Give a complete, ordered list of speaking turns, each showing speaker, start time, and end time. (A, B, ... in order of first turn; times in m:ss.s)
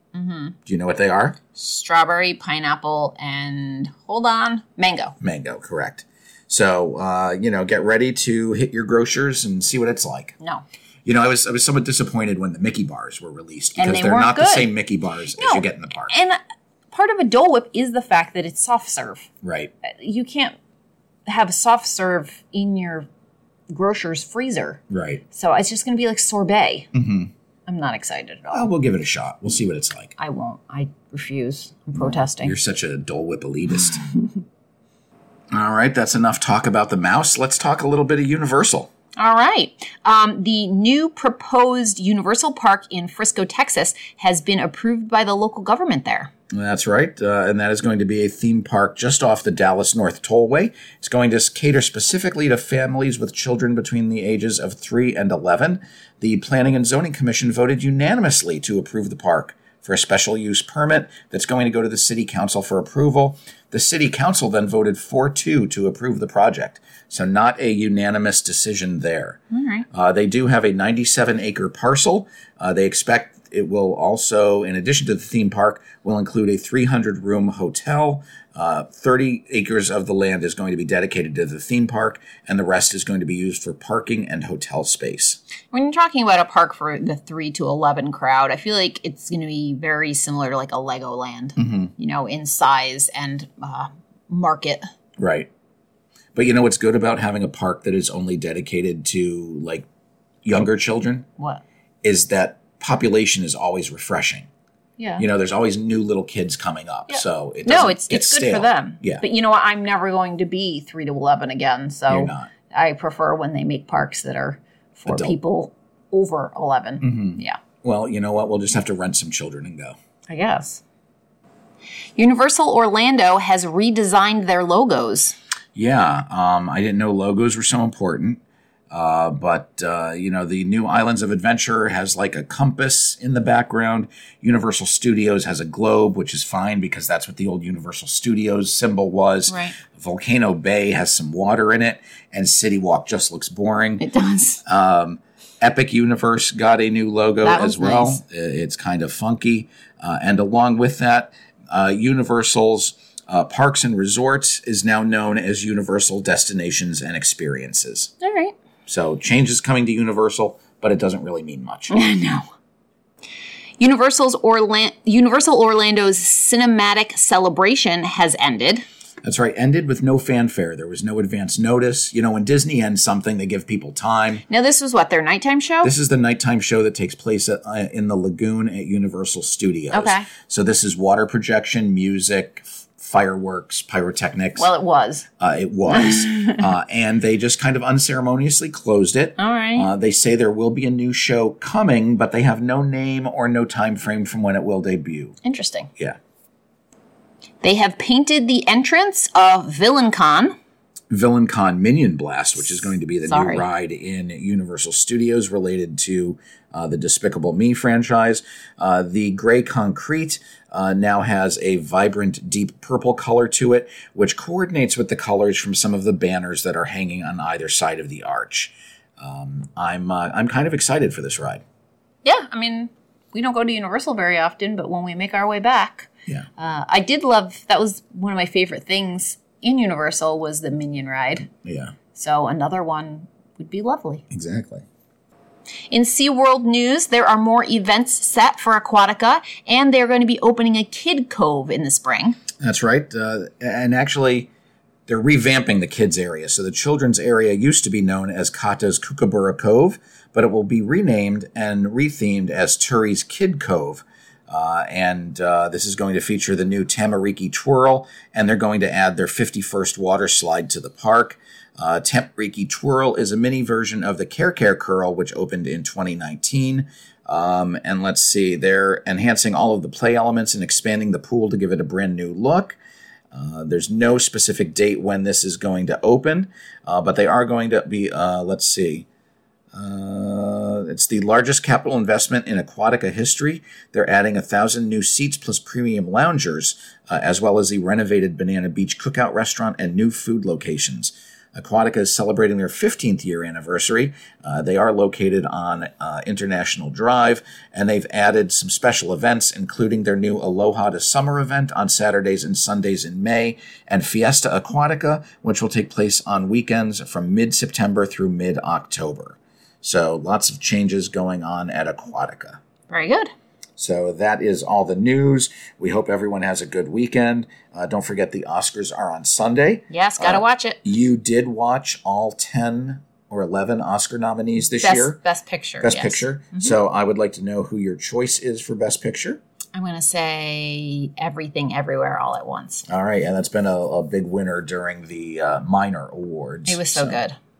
0:00.1-0:00.6 A
0:00.6-0:01.4 B
0:01.5-0:05.2 A
0:05.2-0:10.4 B
0:11.0-0:16.1 B
0:13.8-0:14.7 A
0:15.4-0:16.4 A
0:16.9-0:19.3 A
0:19.4-0:19.7 B
0:19.8-0:20.5 A
0:21.3-0:23.1 A
0:23.7-0:24.8 A
0:24.9-0:25.2 B
0:25.3-0:26.9 A
0:26.9-0:27.3 B
0:27.7-0:28.7 A
0:28.5-0:30.1 B
0:30.2-0:32.5 A
0:31.9-0:34.1 B
0:35.5-0:38.9 B
0:39.2-0:46.3 A
0:46.5-1:09.4 B
1:09.5-1:09.8 A
1:09.9-1:25.4 B
1:25.7-1:34.8 A
1:31.6-1:31.9 B
1:35.2-1:35.5 B
1:36.3-1:39.8 B
1:40.4-1:41.2 B
1:42.0-1:44.5 B
1:45.0-1:45.2 A
1:45.2-1:49.2 B
1:47.1-1:57.6 A
1:52.1-1:52.5 B
1:55.1-1:55.4 B
1:57.0-1:59.9 B
2:00.3-2:00.8 A
2:02.2-2:05.4 A
2:05.7-2:08.4 B
2:08.9-2:24.0 B
2:19.5-2:19.8 A
2:24.0-2:24.6 A
2:24.6-2:38.1 B
2:27.4-2:28.2 A
2:38.2-2:38.5 A
2:38.8-2:41.9 B
2:41.9-2:42.5 A
2:43.8-2:48.8 A
2:49.2-2:54.4 B
2:54.5-2:55.9 A
2:55.8-3:04.7 B
2:59.9-3:00.3 A
3:04.6-3:05.2 A
3:05.4-3:15.4 B
3:05.9-3:06.6 A
3:09.4-3:09.9 A
3:15.4-3:15.9 A
3:17.6-3:20.6 A
3:21.1-3:41.6 B
3:23.3-3:23.6 A
3:42.2-3:51.5 A
3:51.6-3:51.9 B
3:52.1-3:54.2 A
3:54.3-3:54.8 B
3:55.9-4:02.4 A
4:02.6-4:04.5 B
4:05.1-4:32.8 B
4:33.3-4:39.1 B
4:39.7-5:12.6 B
5:12.9-5:13.3 A
5:13.8-5:25.2 B
5:19.9-5:20.8 A
5:24.8-5:26.7 A
5:25.8-5:29.4 B
5:29.7-5:32.8 A
5:32.9-5:37.2 B
5:36.7-5:37.4 A